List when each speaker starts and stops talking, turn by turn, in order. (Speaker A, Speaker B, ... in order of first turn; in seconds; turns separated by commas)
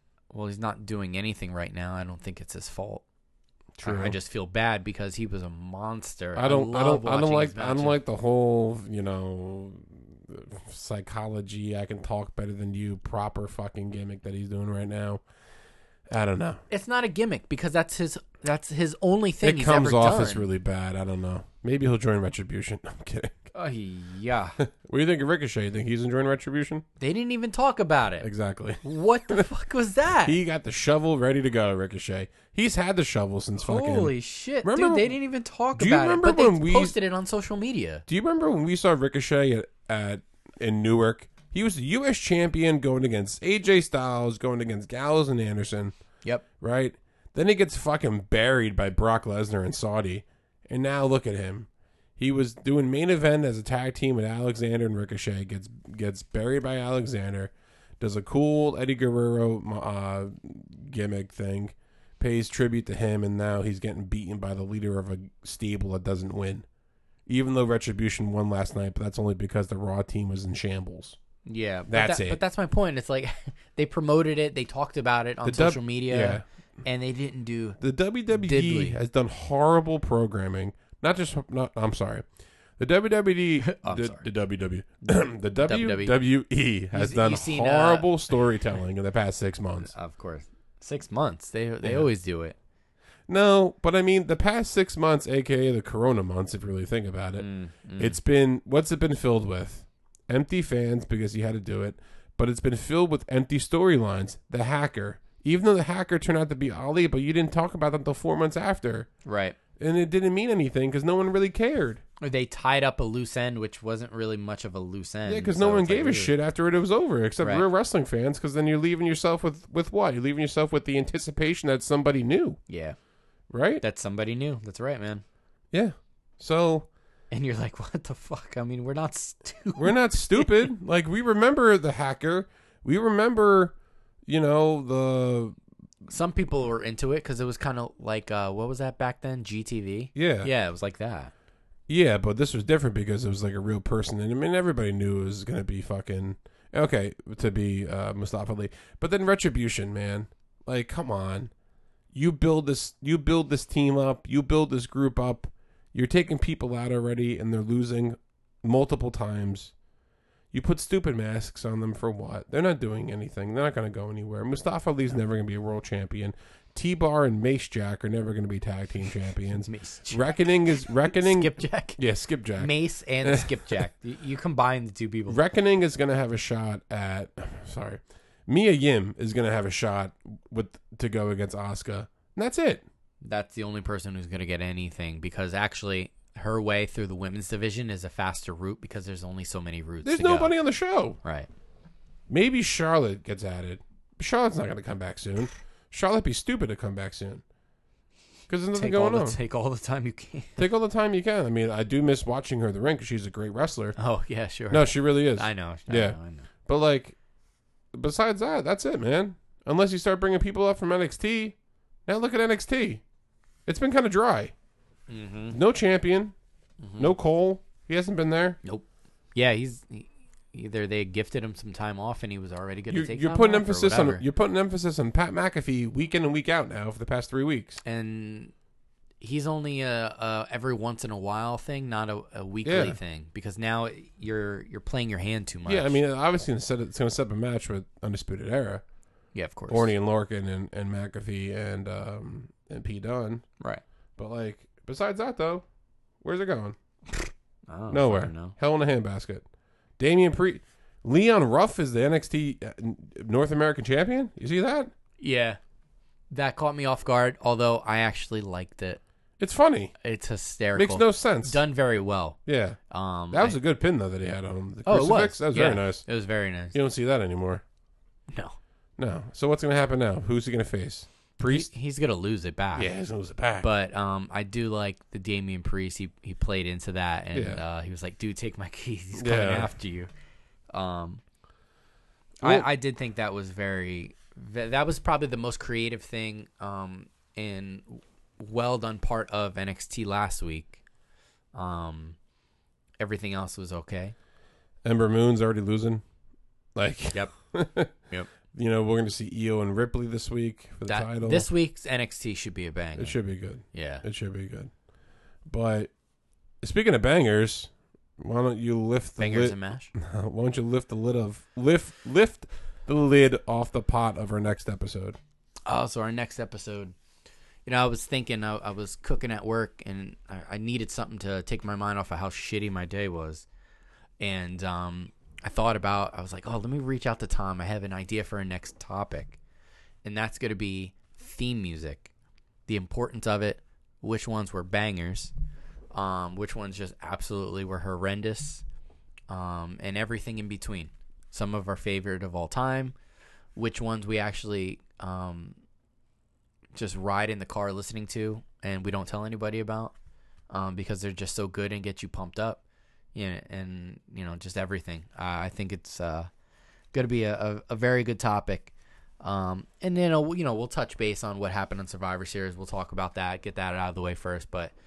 Speaker A: 0.3-3.0, Speaker B: 3.8-4.2, Speaker A: 3.8-8.0, Speaker B: 6.3-15.2, Speaker B: 16.1-16.6, Speaker A: 16.7-20.5, Speaker B: 19.4-23.4, Speaker A: 23.5-24.6, Speaker B: 24.6-26.8, Speaker A: 27.0-28.3, Speaker B: 28.2-29.4, Speaker A: 28.8-30.4, Speaker B: 30.2-35.2, Speaker A: 33.6-38.0, Speaker B: 35.8-37.0, Speaker B: 38.1-45.9, Speaker B: 46.6-66.7, Speaker B: 67.3-71.2, Speaker A: 71.5-79.0, Speaker B: 71.9-72.4, Speaker B: 75.4-76.4, Speaker B: 77.8-82.2, Speaker B: 82.8-89.9, Speaker A: 83.6-84.2, Speaker A: 85.6-86.2, Speaker A: 86.9-88.1, Speaker A: 89.8-92.6, Speaker B: 93.3-109.1, Speaker A: 97.4-98.2, Speaker A: 109.2-109.6, Speaker B: 109.8-112.0, Speaker A: 112.2-116.3, Speaker B: 115.3-122.6, Speaker A: 117.4-117.7, Speaker A: 122.7-123.0, Speaker B: 123.5-123.8, Speaker A: 123.8-125.2, Speaker B: 125.7-126.9, Speaker A: 127.3-130.7, Speaker B: 129.8-133.7, Speaker B: 134.3-135.6, Speaker A: 136.1-141.3, Speaker B: 140.2-140.5, Speaker B: 141.9-151.5, Speaker B: 152.1-159.7, Speaker B: 160.5-173.8, Speaker A: 169.7-172.0, Speaker A: 172.6-175.4, Speaker B: 175.3-182.8, Speaker A: 183.2-190.6, Speaker B: 190.0-191.2, Speaker A: 191.2-191.5, Speaker B: 192.3-197.4, Speaker B: 198.5-199.4, Speaker A: 198.7-200.6, Speaker B: 200.6-204.0, Speaker A: 204.0-206.5, Speaker B: 204.7-207.2, Speaker B: 207.9-211.6, Speaker B: 212.1-213.0, Speaker B: 213.7-214.5, Speaker A: 215.1-215.6, Speaker B: 215.5-216.3, Speaker A: 216.8-217.1, Speaker B: 217.0-218.6, Speaker A: 218.6-224.2, Speaker B: 222.9-227.8, Speaker A: 227.8-228.5, Speaker A: 229.2-236.0, Speaker B: 232.7-233.0, Speaker B: 235.7-238.8, Speaker A: 239.3-239.9, Speaker B: 239.7-243.4, Speaker B: 244.2-245.7, Speaker B: 246.2-246.8, Speaker A: 247.7-248.5, Speaker B: 247.9-249.4, Speaker B: 250.0-254.9, Speaker A: 255.2-255.6, Speaker A: 256.3-259.0, Speaker B: 259.4-259.9, Speaker A: 260.0-262.4, Speaker B: 260.8-261.6, Speaker B: 262.5-262.8, Speaker A: 262.9-263.6, Speaker B: 263.3-266.1, Speaker A: 264.9-266.8, Speaker B: 266.7-267.6, Speaker B: 269.0-271.7, Speaker A: 271.4-272.9, Speaker B: 272.8-273.7, Speaker A: 273.6-280.1, Speaker B: 277.3-277.6, Speaker B: 279.2-279.7, Speaker A: 280.7-281.2, Speaker A: 282.4-290.8, Speaker A: 291.6-292.2, Speaker A: 293.0-294.1, Speaker B: 294.8-296.0, Speaker B: 296.8-297.9, Speaker B: 298.5-301.5, Speaker A: 300.9-303.2, Speaker B: 303.0-304.7, Speaker A: 303.7-304.0, Speaker B: 305.5-305.9, Speaker B: 306.6-315.2, Speaker A: 309.2-309.9, Speaker A: 315.7-316.9, Speaker A: 317.7-323.5, Speaker A: 324.2-329.4, Speaker A: 330.0-332.1, Speaker A: 332.7-335.3, Speaker A: 335.9-338.6, Speaker A: 339.3-342.9, Speaker A: 343.6-345.6, Speaker A: 346.8-349.9, Speaker A: 350.5-352.6, Speaker A: 353.1-356.3, Speaker A: 356.9-364.7